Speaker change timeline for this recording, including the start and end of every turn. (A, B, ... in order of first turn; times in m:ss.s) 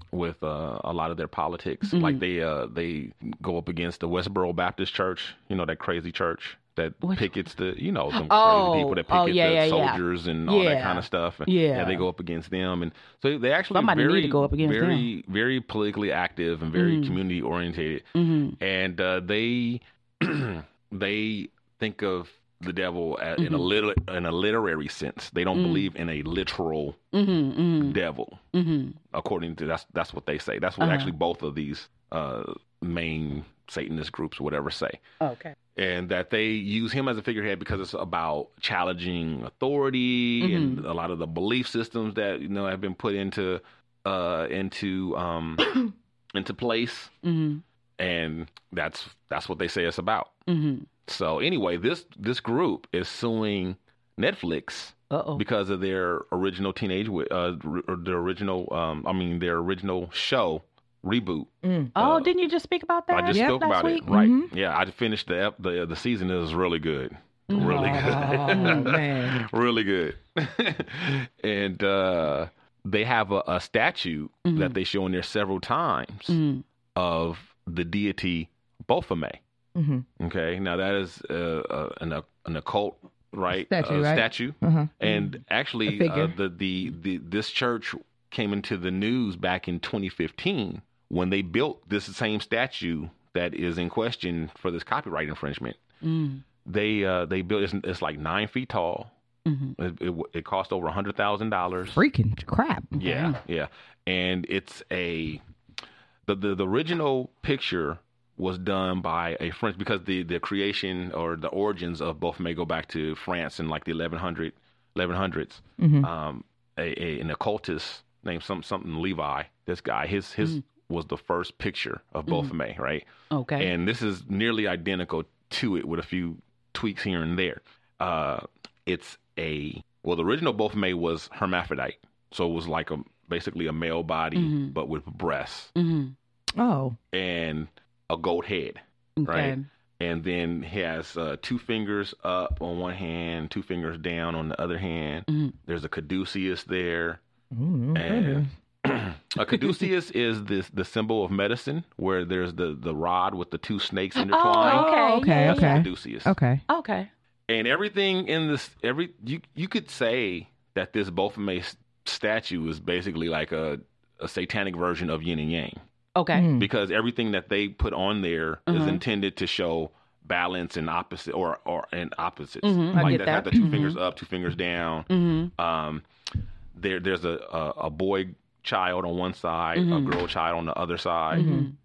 0:00.1-0:18.0 A
0:01.9-0:02.2 B
0:07.0-0:07.3 B
0:08.1-0:12.0 B
0:13.7-0:15.1 B
0:16.7-0:17.2 B
0:18.1-0:18.6 B
0:18.6-0:27.0 A
0:23.4-0:23.7 B
0:25.5-0:25.9 B
0:27.1-0:28.0 B
0:27.8-0:28.4 A
0:28.5-0:29.0 B
0:29.1-0:35.0 A
0:30.8-0:31.1 B
0:35.2-0:35.5 B
0:35.7-0:47.1 A
0:40.4-0:40.8 B
0:47.2-0:47.6 B
0:48.0-0:50.3 A
0:50.5-0:50.9 B
0:51.0-1:02.3 A
0:55.1-0:55.4 B
1:01.6-1:01.9 C
1:01.9-1:04.0 B
1:03.1-1:16.4 A
1:03.3-1:04.5 C
1:07.5-1:09.0 B
1:07.5-1:09.4 C
1:14.4-1:14.8 B
1:16.3-1:16.6 B
1:17.0-1:19.4 A
1:19.8-1:20.0 C
1:20.2-1:35.8 A
1:23.5-1:24.9 C
1:25.8-1:26.3 C
1:36.0-1:36.4 B
1:36.6-1:39.1 A
1:39.4-1:39.7 B
1:39.8-1:42.0 A
1:41.9-1:42.9 C
1:42.9-1:43.4 B
1:43.0-1:45.4 A
1:46.2-2:03.0 A
1:55.8-1:56.1 C
2:02.3-2:02.5 B
2:03.3-2:03.7 B
2:03.6-2:15.7 A
2:14.3-2:14.7 B
2:15.8-2:16.1 B
2:16.6-2:17.0 C
2:17.1-2:27.2 A
2:19.2-2:19.6 B
2:25.3-2:25.5 B
2:27.5-2:28.5 C
2:27.9-2:36.3 A
2:34.2-2:35.9 B
2:34.6-2:36.6 C
2:36.7-2:37.1 B
2:37.5-2:45.8 A
2:46.2-2:46.5 B
2:46.3-2:46.7 C
2:46.6-2:56.0 A
2:48.7-2:49.0 B
2:52.6-2:54.0 B
2:52.9-2:53.7 C
2:55.1-2:55.5 B
2:56.7-3:01.6 A
2:59.7-3:00.2 B
3:01.3-3:01.7 B
3:01.3-3:01.7 C